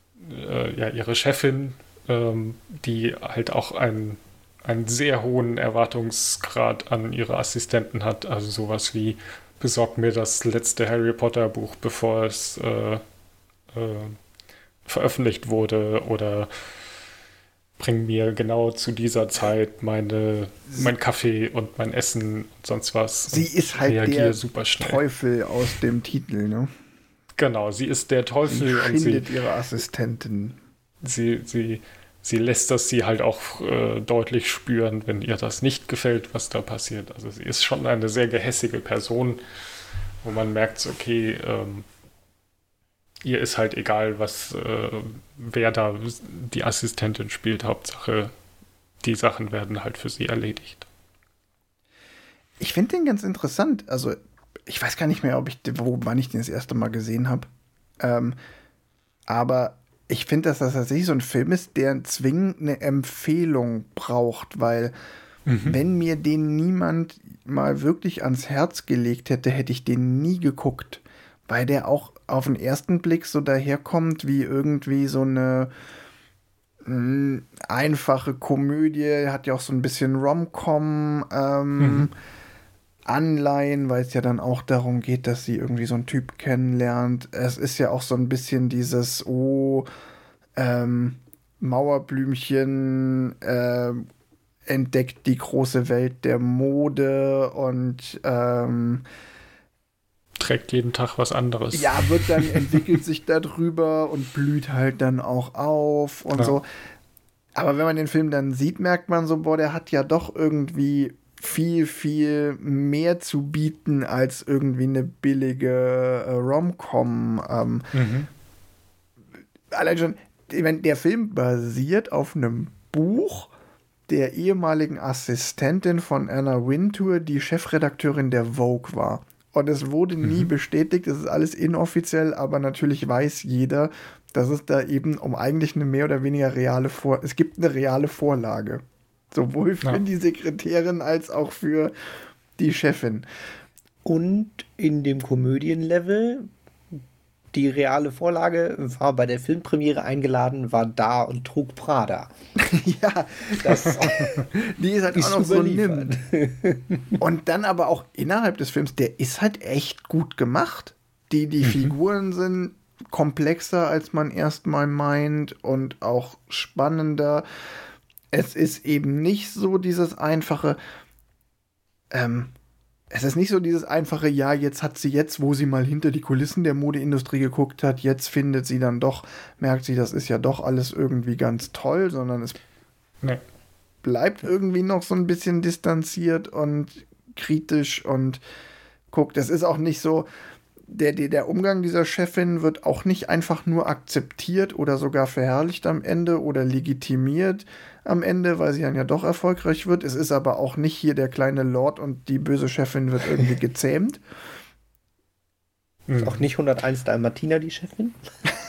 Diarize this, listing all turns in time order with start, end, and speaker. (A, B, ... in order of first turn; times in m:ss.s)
0:00.2-0:13.0 A
0:13.7-0:14.2 A
0:14.9-0:16.5 A
0:17.8-0:25.0 A
0:23.3-0:26.7 B
0:27.4-0:29.3 A
0:28.5-0:30.6 B
0:31.0-0:39.4 A
0:40.2-0:41.8 A
0:43.2-0:48.3 A
0:49.0-0:50.9 A
0:52.6-0:57.5 B
0:58.0-0:58.4 B
0:59.3-1:04.9 B
1:05.5-1:05.8 A
1:05.6-1:15.7 B
1:16.9-1:22.2 B
1:21.8-1:22.1 A
1:23.1-1:29.9 B
1:30.6-1:34.1 B
1:34.7-1:39.1 B
1:40.4-1:42.8 A
1:41.7-1:46.7 B
1:47.6-1:57.9 B
1:57.9-1:58.3 A
1:59.7-2:03.5 B
2:04.1-2:21.9 B
2:10.2-2:10.5 A
2:22.6-2:23.3 B
2:24.0-2:26.5 C
2:27.5-2:32.3 C
2:32.6-2:36.2 B
2:33.5-2:34.2 C
2:35.1-2:37.0 C
2:37.2-2:47.5 B
2:41.6-2:42.0 A
2:48.3-2:50.8 B
2:52.1-2:52.5 B
2:53.1-3:02.6 B
3:04.0-3:08.4 B
3:09.1-3:10.3 B
3:10.9-3:24.2 B
3:26.1-3:26.5 A
3:26.2-3:28.2 C